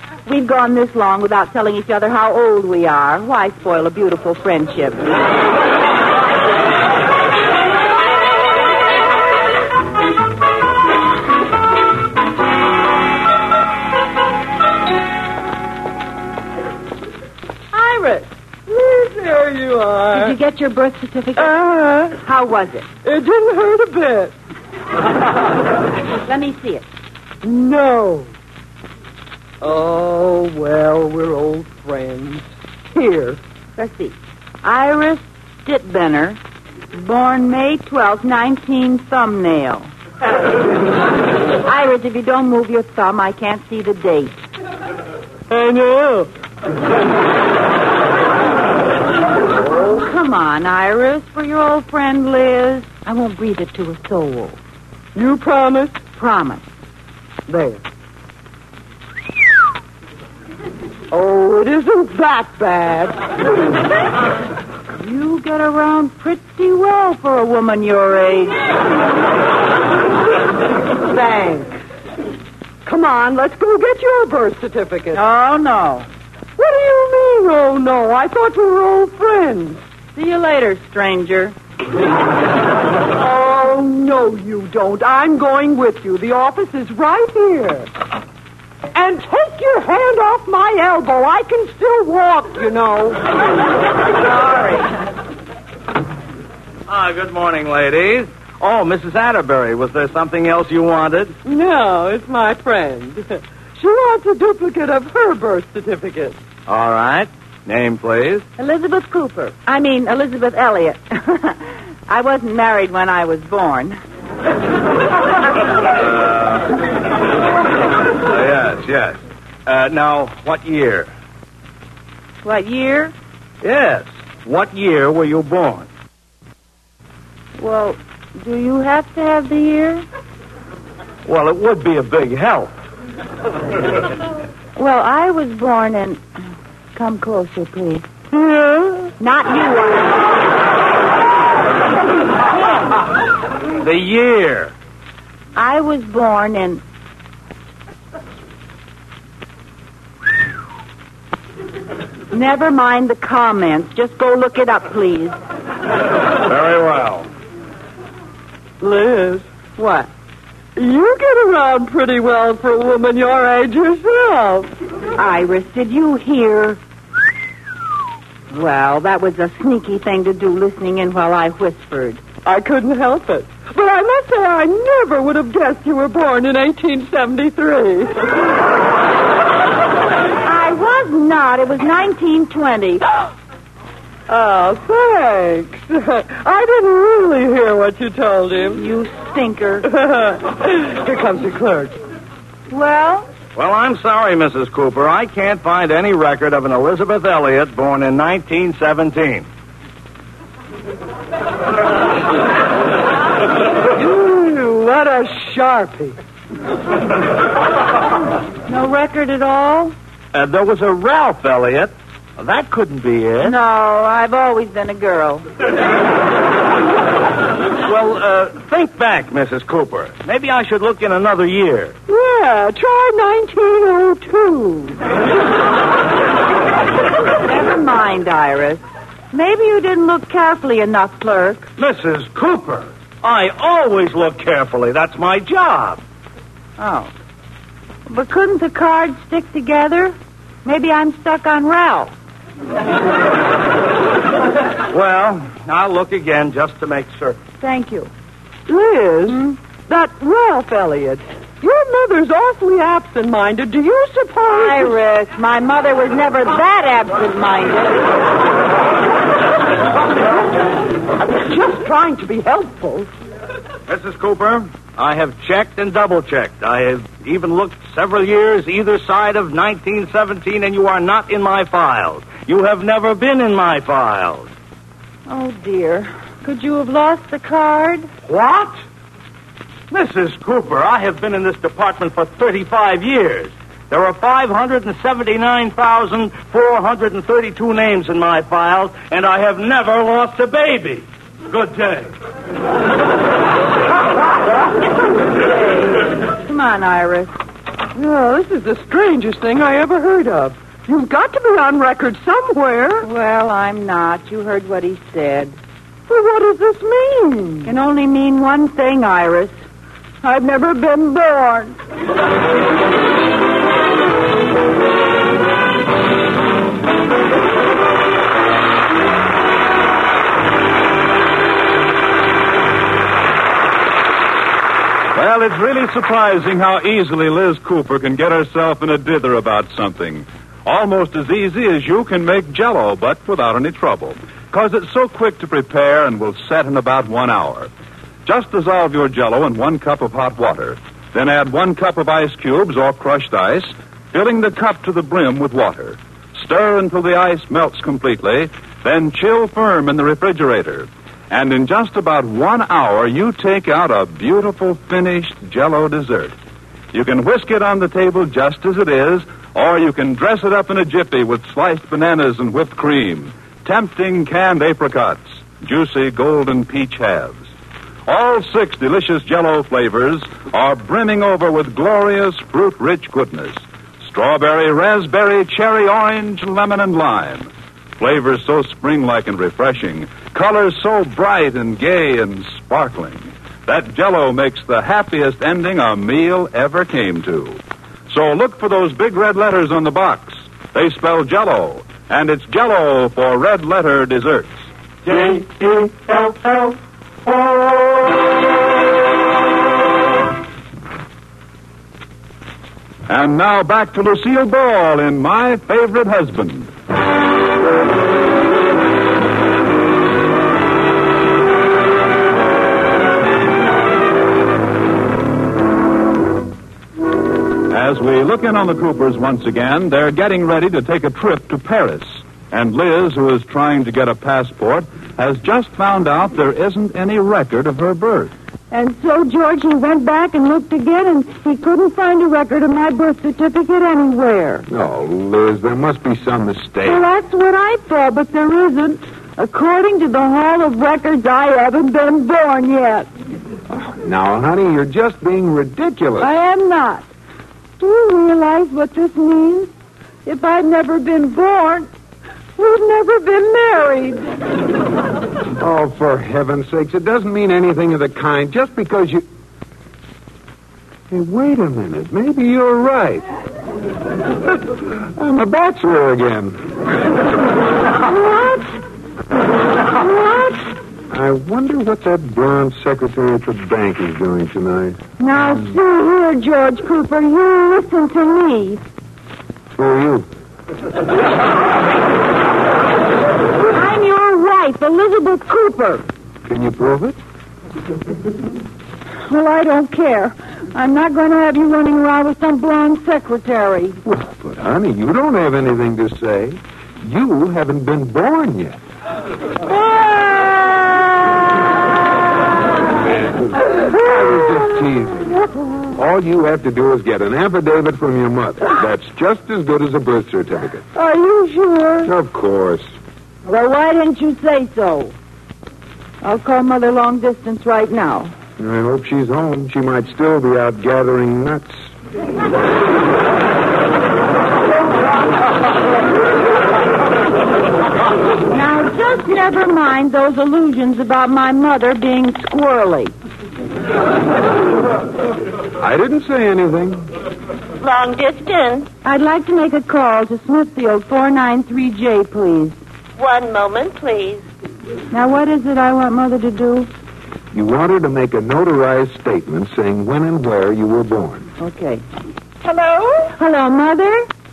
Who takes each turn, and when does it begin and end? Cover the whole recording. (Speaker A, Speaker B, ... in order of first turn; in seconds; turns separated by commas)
Speaker A: 0.2-5.1, Speaker A: 17.7-18.3, Speaker B: 18.7-20.4, Speaker A: 20.1-22.9, Speaker B: 21.4-22.2, Speaker B: 23.0-24.3, Speaker A: 26.2-26.9, Speaker B: 27.4-28.3, Speaker B: 29.6-33.4, Speaker A: 33.8-36.4, Speaker A: 36.9-39.9, Speaker A: 41.6-44.4, Speaker B: 45.5-46.3, Speaker A: 49.9-54.6, Speaker B: 55.1-56.0, Speaker A: 56.1-56.6, Speaker B: 57.5-57.8, Speaker B: 61.1-63.2, Speaker A: 65.0-68.6, Speaker A: 71.1-71.7, Speaker B: 72.8-75.2, Speaker A: 75.1-76.1, Speaker B: 76.6-79.8, Speaker A: 80.1-81.5, Speaker B: 83.2-87.9, Speaker B: 88.9-93.3, Speaker A: 94.5-94.8, Speaker C: 96.9-101.3, Speaker B: 101.4-106.4, Speaker C: 106.7-108.5, Speaker A: 108.6-114.0, Speaker C: 116.0-116.7, Speaker C: 118.2-121.1, Speaker A: 122.4-123.1, Speaker C: 123.6-125.9, Speaker A: 127.6-130.0, Speaker C: 131.2-132.7, Speaker A: 134.8-136.2, Speaker A: 136.9-138.1, Speaker B: 138.3-139.1, Speaker A: 139.2-140.2, Speaker A: 142.5-142.9, Speaker C: 143.8-144.7, Speaker A: 145.6-146.8, Speaker A: 152.3-155.4, Speaker C: 156.5-157.2, Speaker B: 158.8-159.4, Speaker A: 159.8-160.1, Speaker B: 160.8-164.7, Speaker A: 165.2-166.8, Speaker A: 168.5-172.2, Speaker B: 172.4-178.3, Speaker A: 180.4-183.0, Speaker B: 184.3-188.8, Speaker A: 188.7-189.9, Speaker B: 189.8-191.9, Speaker A: 192.7-193.3, Speaker C: 193.5-199.5, Speaker B: 203.9-206.2, Speaker A: 208.7-209.9, Speaker C: 210.3-213.5, Speaker A: 213.4-215.4, Speaker C: 217.8-221.9, Speaker B: 222.1-225.0, Speaker A: 227.4-231.7, Speaker C: 231.8-236.0, Speaker A: 236.8-237.1, Speaker A: 238.1-242.1, Speaker C: 244.9-247.4, Speaker A: 247.6-248.1, Speaker B: 248.7-255.0, Speaker A: 254.5-258.1, Speaker B: 261.2-263.1, Speaker C: 263.9-274.5, Speaker A: 275.3-278.1, Speaker C: 278.2-278.8, Speaker C: 279.9-292.1, Speaker A: 296.4-297.3, Speaker B: 297.9-303.1, Speaker A: 303.0-305.6, Speaker B: 306.1-307.7, Speaker A: 307.6-309.5, Speaker A: 310.2-311.8, Speaker D: 325.1-337.7, Speaker D: 338.2-356.4, Speaker D: 356.9-367.5, Speaker D: 368.1-394.7, Speaker D: 403.1-406.7, Speaker D: 417.7-428.3, Speaker A: 428.7-434.6, Speaker E: 434.7-437.0, Speaker A: 436.8-443.1, Speaker E: 443.7-446.3, Speaker A: 446.2-447.1, Speaker A: 447.8-449.7, Speaker A: 450.2-451.9, Speaker A: 452.6-454.2, Speaker E: 455.6-459.2, Speaker E: 461.1-463.2, Speaker E: 464.9-466.6, Speaker A: 468.0-468.7, Speaker A: 469.9-470.6, Speaker E: 471.1-475.0, Speaker A: 475.2-478.8, Speaker E: 479.8-480.3, Speaker A: 483.7-486.0, Speaker E: 486.4-487.2, Speaker A: 489.3-494.0, Speaker E: 494.0-498.8, Speaker A: 499.7-500.8, Speaker E: 503.4-505.4, Speaker E: 505.9-510.8, Speaker A: 510.9-512.1, Speaker E: 512.0-512.9, Speaker A: 513.5-515.1, Speaker A: 516.2-518.3, Speaker E: 518.6-521.9, Speaker A: 528.5-533.1, Speaker E: 535.8-537.1, Speaker F: 537.8-538.9, Speaker A: 539.0-542.8, Speaker F: 543.2-544.4, Speaker A: 545.1-546.9, Speaker E: 547.5-551.5, Speaker A: 551.6-552.0, Speaker F: 552.6-553.3, Speaker A: 553.4-554.3